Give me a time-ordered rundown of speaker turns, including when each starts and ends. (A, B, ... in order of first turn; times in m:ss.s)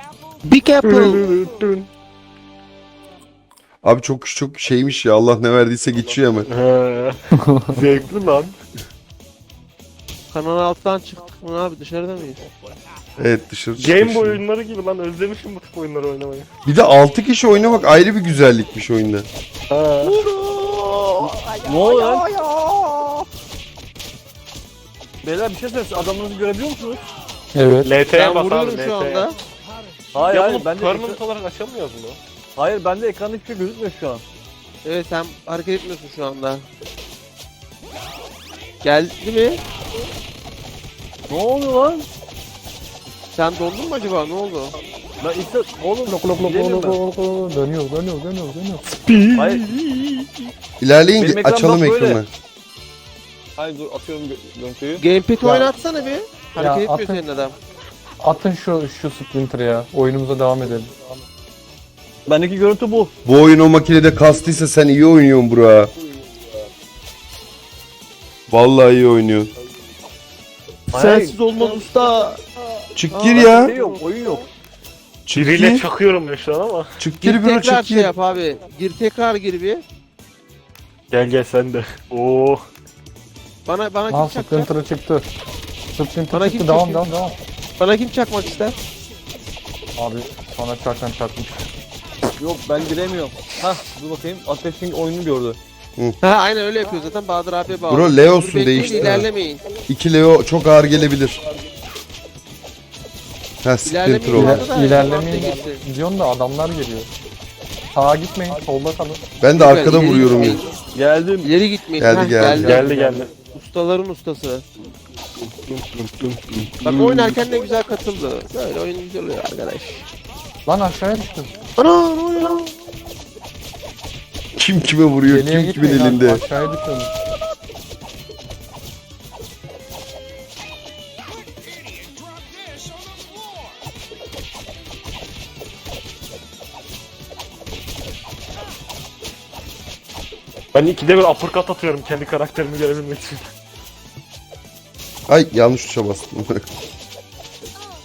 0:00.4-0:01.2 A
0:00.8-0:01.9 B
0:03.8-0:06.5 C
0:06.5-0:08.5 B
0:10.3-0:12.4 A
0:13.2-0:14.4 C
0:13.8-0:16.5 B
0:16.7-0:19.3 C
0:19.7-0:20.2 B
0:20.0-0:23.2 A
0:21.2-0:22.3 D
0:25.2-0:27.0 D
0:27.5-0:27.9 E
0:27.8-0:29.3 B
0:28.1-0:29.3 A
0:30.1-0:31.2 D
0:30.2-0:32.2 B
0:32.6-0:34.2 D
0:34.8-0:36.7 A
0:38.8-0:39.6 A
0:41.3-0:42.1 D
0:43.3-0:44.7 A
0:45.2-0:47.0 D
0:46.0-0:48.9 E
0:48.8-0:50.2 B
0:49.4-0:49.7 D
0:50.8-0:52.3 C
0:51.2-0:52.2 D
0:53.6-0:55.0 D
0:55.0-0:57.6 A
0:56.6-0:57.2 E
0:58.2-1:00.9 E
1:02.3-1:03.1 D
1:03.2-1:05.9 C
1:08.5-1:09.5 C
1:10.9-1:12.0 D
1:10.9-1:12.4 A
1:13.0-1:13.7 C
1:13.1-1:14.0 A
1:13.3-1:14.4 D
1:15.3-1:15.9 C
1:15.3-1:16.9 B
1:17.0-1:18.1 C
1:17.2-1:19.8 A
1:21.1-1:22.6 B
1:23.7-1:24.7 A
1:24.1-1:25.3 E
1:25.9-1:27.4 E
1:26.3-1:27.0 A
1:27.8-1:28.8 A
1:30.0-1:31.7 E
1:32.4-1:35.6 D
1:36.2-1:39.6 A
1:37.9-1:39.3 C
1:39.9-1:41.4 C
1:43.6-1:44.7 C
1:43.8-1:45.8 A
1:44.3-1:47.1 E
1:47.9-1:49.2 E
1:49.4-1:50.6 C
1:49.6-1:50.7 A
1:50.9-1:51.5 D
1:51.4-1:54.7 A
1:52.0-1:52.8 C
1:52.5-1:53.0 E
1:52.6-1:53.3 B
1:55.4-1:56.9 B
1:56.8-2:00.1 A
1:57.0-1:57.4 D
2:00.7-2:01.5 E
2:01.8-2:02.7 A
2:04.6-2:06.4 C
2:05.2-2:07.1 E
2:20.7-2:23.5 B
2:25.3-2:26.6 C